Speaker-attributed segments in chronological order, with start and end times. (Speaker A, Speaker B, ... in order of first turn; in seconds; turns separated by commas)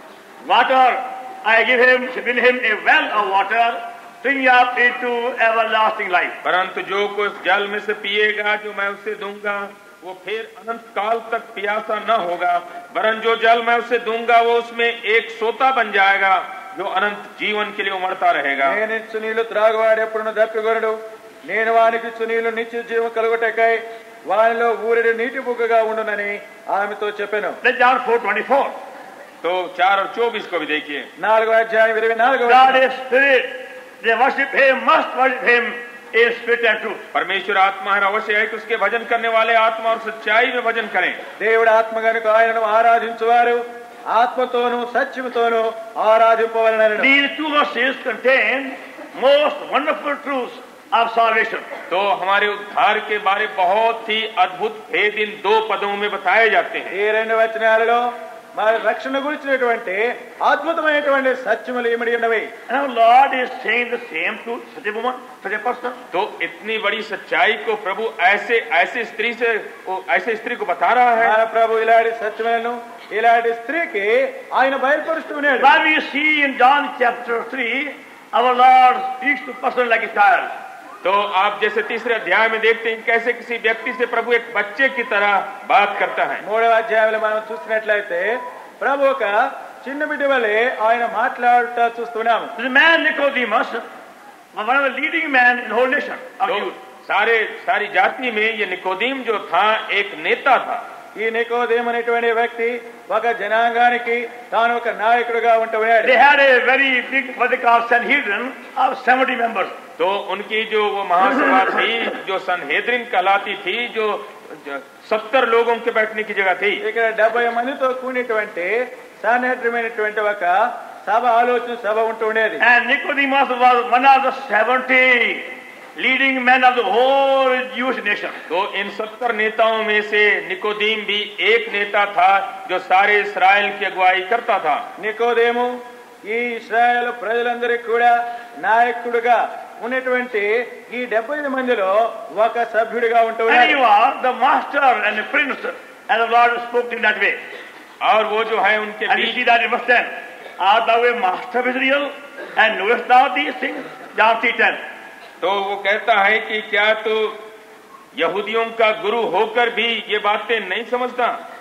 Speaker A: 0.5-6.4, Speaker B: 6.4-18.8, Speaker C: 18.6-27.6, Speaker A: 27.6-28.8, Speaker B: 29.4-31.1, Speaker C: 31.2-32.8, Speaker A: 32.5-37.0, Speaker B: 37.1-41.2, Speaker C: 41.4-47.1, Speaker A: 47.0-51.7, Speaker B: 51.9-57.0, Speaker C: 56.9-62.5, Speaker A: 62.7-66.0, Speaker B: 66.1-71.4, Speaker C: 71.2-75.8, Speaker A: 75.6-80.5, Speaker B: 81.0-86.4, Speaker C: 86.4-92.5, Speaker A: 92.5-93.8, Speaker A: 94.5-96.8, Speaker B: 96.5-100.8, Speaker C: 101.1-106.2, Speaker A: 106.0-109.7, Speaker B: 110.0-116.8, Speaker C: 116.8-122.6, Speaker A: 122.6-128.4, Speaker B: 128.5-134.8, Speaker C: 135.0-143.8, Speaker A: 143.5-147.4, Speaker B: 148.0-149.4, Speaker A: 149.1-154.8, Speaker B: 155.4-157.4, Speaker B: 158.1-161.4